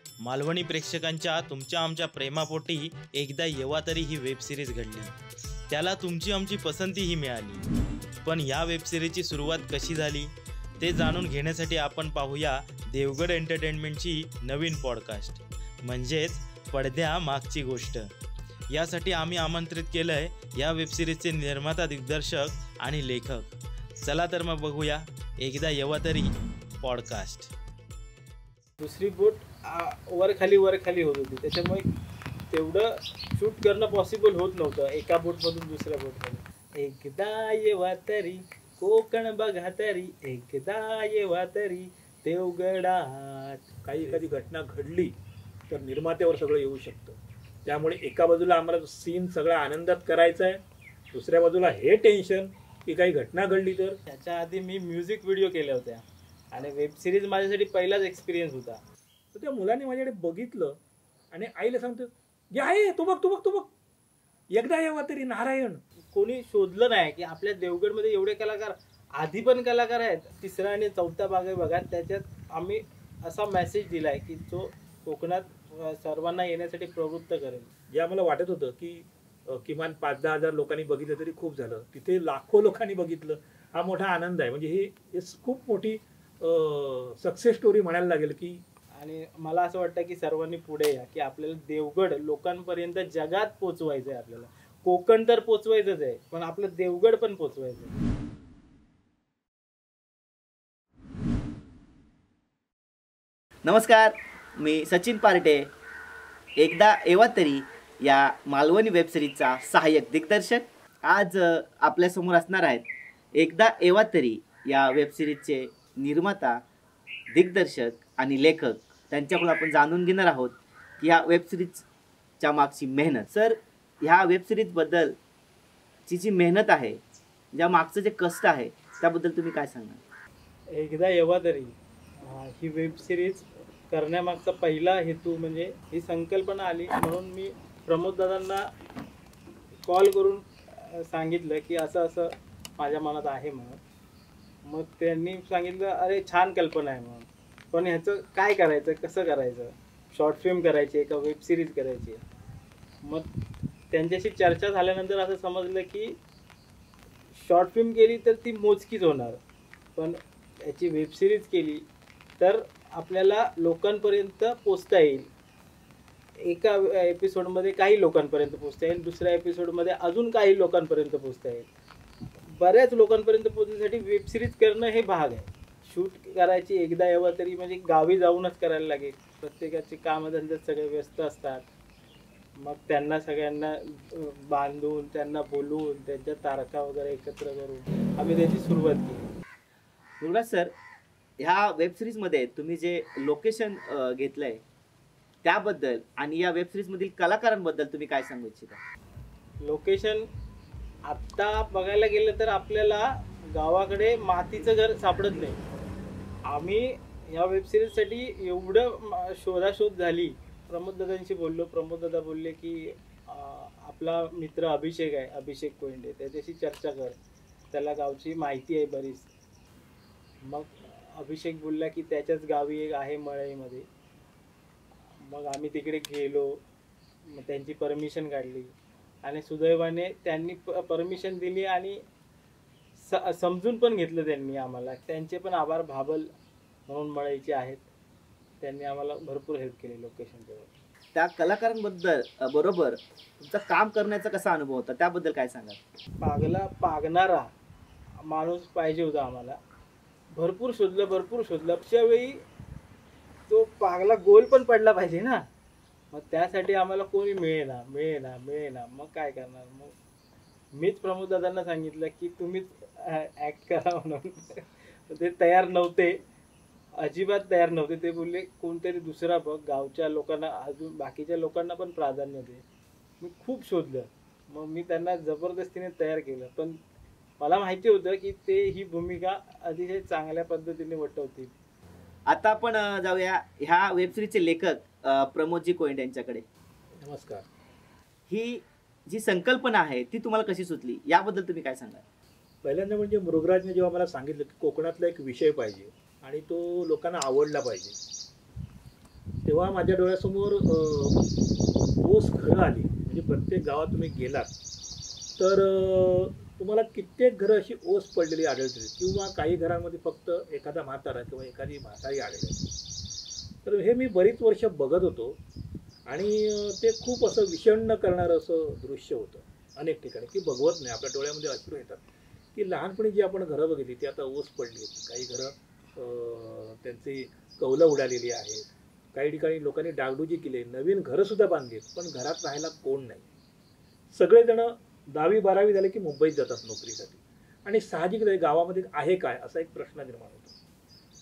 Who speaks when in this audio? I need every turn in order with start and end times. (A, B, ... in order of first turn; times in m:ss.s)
0:00.2-0:05.2 A
0:05.7-0:07.7 A
0:08.2-0:18.1 A
0:18.7-0:27.5 A
0:28.8-0:31.8 B
0:32.5-0:44.4 B
0:43.8-0:45.1 C
0:45.7-0:54.0 C
0:54.1-0:58.8 B
0:59.3-1:00.8 C
1:01.3-1:03.7 C
1:04.5-1:05.8 C
1:06.1-1:17.7 B
1:17.9-1:28.6 C
1:29.0-1:38.0 B
1:43.6-1:45.7 D
1:46.6-1:56.6 D
1:57.3-2:01.8 D
2:02.4-2:05.2 D
2:06.1-2:07.0 D
2:07.5-2:10.0 D
2:10.7-2:18.7 B
2:19.8-2:23.8 B
2:24.6-2:32.2 B
2:33.0-2:33.3 B
2:33.9-2:36.2 B
2:37.3-2:39.4 B
2:40.0-2:41.8 B
2:42.4-2:45.3 B
2:46.4-2:51.7 B
2:52.5-3:01.6 B
3:02.6-3:09.3 B
3:10.2-3:10.7 D
3:11.4-3:14.6 D
3:15.4-3:18.8 D
3:19.6-3:20.2 B
3:21.1-3:25.6 B
3:26.4-3:37.2 B
3:37.7-3:39.3 B
3:40.4-3:43.9 B
3:45.1-3:46.6 B
3:47.2-3:52.0 B
3:53.0-3:56.3 B
3:56.9-3:57.9 B
3:58.6-4:00.7 B
4:01.1-4:05.8 D
4:06.2-4:07.5 B
4:08.2-4:09.6 B
4:10.3-4:12.4 B
4:13.5-4:15.5 B
4:16.1-4:19.9 B
4:20.7-4:26.2 B
4:27.0-4:32.6 B
4:33.2-4:36.8 B
4:37.4-4:41.5 B
4:42.3-4:46.4 D
4:47.0-4:47.4 C
4:48.3-4:52.0 D
4:52.6-4:58.0 C
4:59.4-5:01.2 C
5:02.0-5:04.5 C
5:05.4-5:12.6 C
5:13.6-5:15.4 C
5:16.1-5:22.0 C
5:22.5-5:33.2 C
5:34.1-5:40.5 C